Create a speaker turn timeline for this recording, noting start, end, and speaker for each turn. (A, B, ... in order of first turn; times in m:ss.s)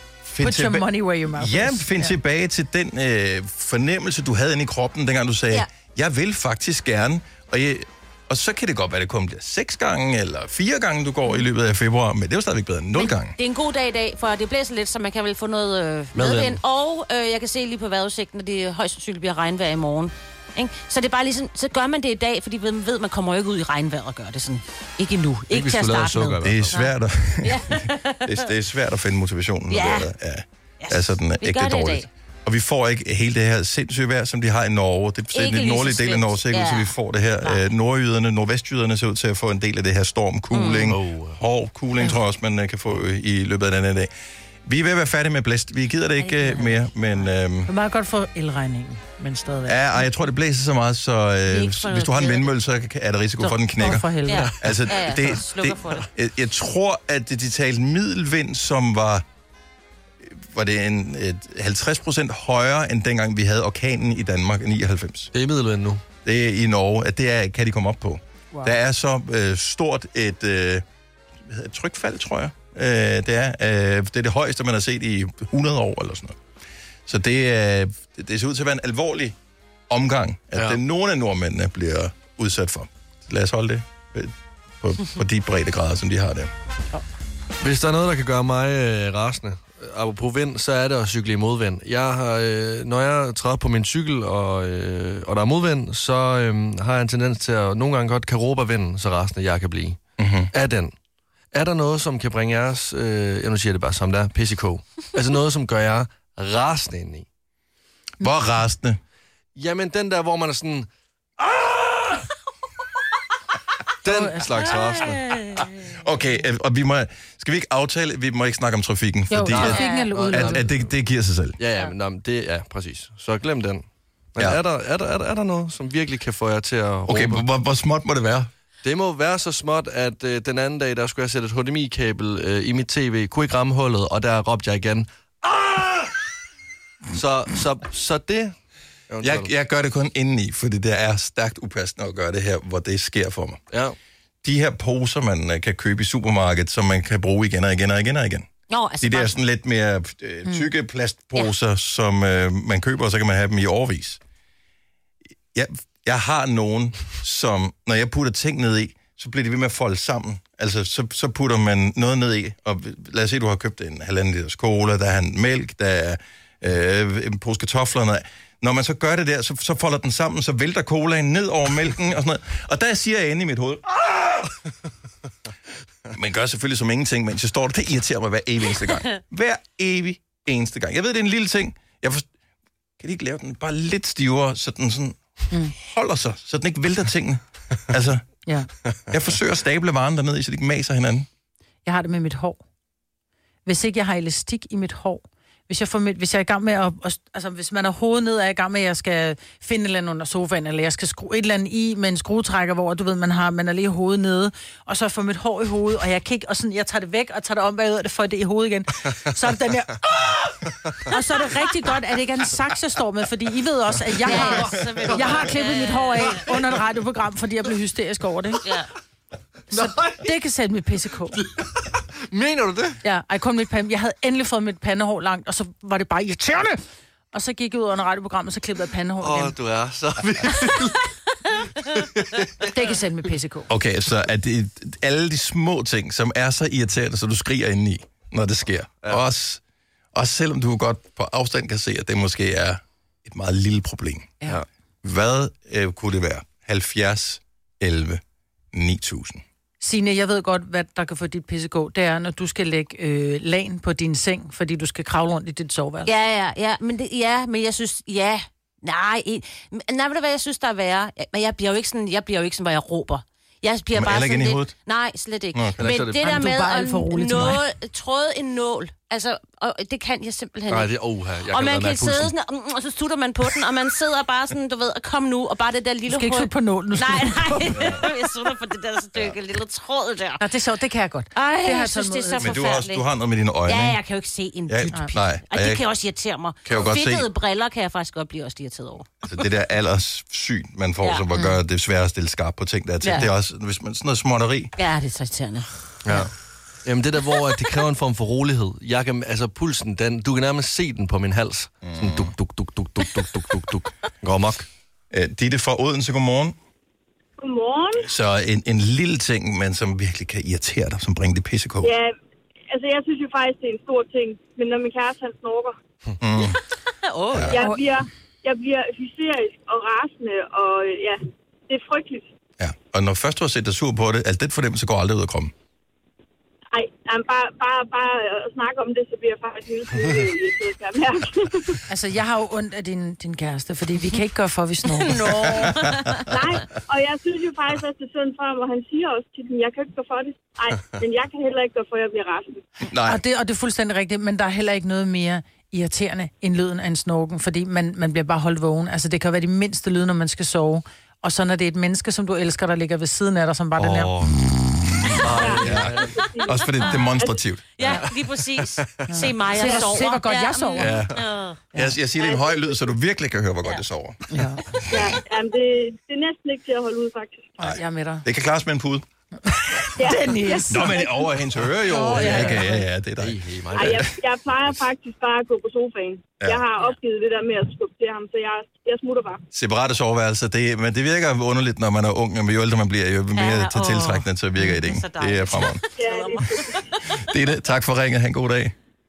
0:00.2-0:13.4 A
0:00.4-0:02.2 B
0:13.0-0:28.4 C
0:16.2-0:16.6 D
0:25.5-0:26.8 D
0:26.4-0:44.1 A
0:29.7-0:30.1 C
0:30.8-0:32.1 C
0:35.3-0:37.6 C
0:40.5-0:41.0 C
0:40.9-0:41.4 D
0:44.7-0:47.7 A
0:46.2-0:47.3 C
0:47.7-0:50.0 B
0:49.7-0:59.2 A
0:51.5-0:52.5 C
0:53.8-0:54.5 B
0:54.3-0:56.1 C
1:00.2-1:05.3 A
1:05.3-1:06.0 D
1:06.2-1:10.8 A
1:11.4-1:16.4 A
1:17.1-1:19.4 A
1:19.9-1:26.5 A
1:27.6-1:40.0 D
1:40.2-1:40.5 A
1:40.5-1:40.9 D
1:41.5-1:47.3 D
1:48.2-1:49.0 A
1:49.6-1:50.9 D
1:54.0-1:55.2 D
1:54.1-1:54.6 B
1:54.7-1:55.9 C
1:55.9-2:01.6 A
1:59.3-2:00.7 B
1:59.5-2:00.8 D
1:59.7-2:00.1 C
2:01.6-2:03.8 D
2:04.4-2:07.4 D
2:07.1-2:08.5 A
2:08.8-2:16.1 D
2:17.1-2:18.5 D
2:19.1-2:19.5 D
2:19.2-2:23.6 A
2:24.4-2:28.5 A
2:28.7-2:29.4 C
2:29.0-2:34.2 A
2:35.5-2:54.4 A
2:56.1-3:02.3 A
3:03.0-3:05.2 A
3:05.7-3:08.2 A
3:09.1-3:11.3 A
3:11.8-3:12.6 B
3:13.7-3:30.4 B
3:31.0-3:38.6 B
3:34.2-3:36.4 C
3:38.6-3:38.9 C
3:39.7-3:41.4 B
3:39.7-3:40.2 D
3:41.6-3:43.0 D
3:43.0-3:46.8 B
3:47.3-3:49.6 B
3:49.2-3:51.1 D
3:51.8-3:52.7 D
3:52.7-3:53.7 B
3:53.7-3:59.6 A
4:00.1-4:04.4 A
4:05.0-4:08.2 A
4:08.7-4:09.4 A
4:09.8-4:16.1 B
4:16.0-4:30.9 C
4:23.9-4:24.7 A
4:25.5-4:25.8 A
4:25.8-4:26.2 D
4:26.2-4:27.6 B
4:30.7-4:32.3 D
4:31.5-4:40.4 C
4:36.1-4:37.7 B
4:37.8-4:38.0 A
4:40.4-4:42.5 B
4:41.4-4:43.1 C
4:42.4-4:44.0 A
4:43.7-4:49.3 C
4:44.7-4:45.8 A
4:46.6-4:47.3 A
4:49.2-4:54.7 A
4:54.8-4:55.7 C
4:56.0-4:56.3 D
4:56.8-5:04.7 D
5:01.8-5:02.3 A
5:05.1-5:06.6 A
5:07.4-5:08.1 E
5:08.0-5:11.9 A
5:11.8-5:12.2 E
5:12.7-5:15.8 E
5:16.2-5:16.6 A
5:17.0-5:17.7 C
5:17.3-5:17.6 A
5:17.5-5:22.3 E
5:17.5-5:17.9 B
5:22.6-5:25.5 A
5:26.7-5:31.8 E
5:31.9-5:35.3 B
5:34.9-5:36.3 C
5:35.3-5:35.9 A
5:36.3-5:42.6 E
5:42.9-5:43.2 A
5:43.0-5:54.1 B
5:53.8-5:54.5 D
5:55.0-5:56.2 D
5:55.3-5:57.3 E
5:55.6-5:57.7 A
5:57.8-6:01.6 C
5:58.8-5:59.1 D
5:59.1-6:01.0 B
6:00.8-6:01.2 D
6:01.8-6:04.2 A
6:04.3-6:04.6 B
6:04.9-6:07.6 E
6:07.6-6:08.2 B
6:07.6-6:09.0 A
6:10.0-6:11.0 E
6:10.0-6:11.1 B
6:10.7-6:14.1 A
6:11.9-6:12.9 B
6:12.2-6:12.5 D
6:13.2-6:14.1 D
6:13.7-6:19.4 E
6:19.5-6:25.8 A
6:23.3-6:27.0 C
6:26.0-6:26.8 E
6:27.2-6:28.7 A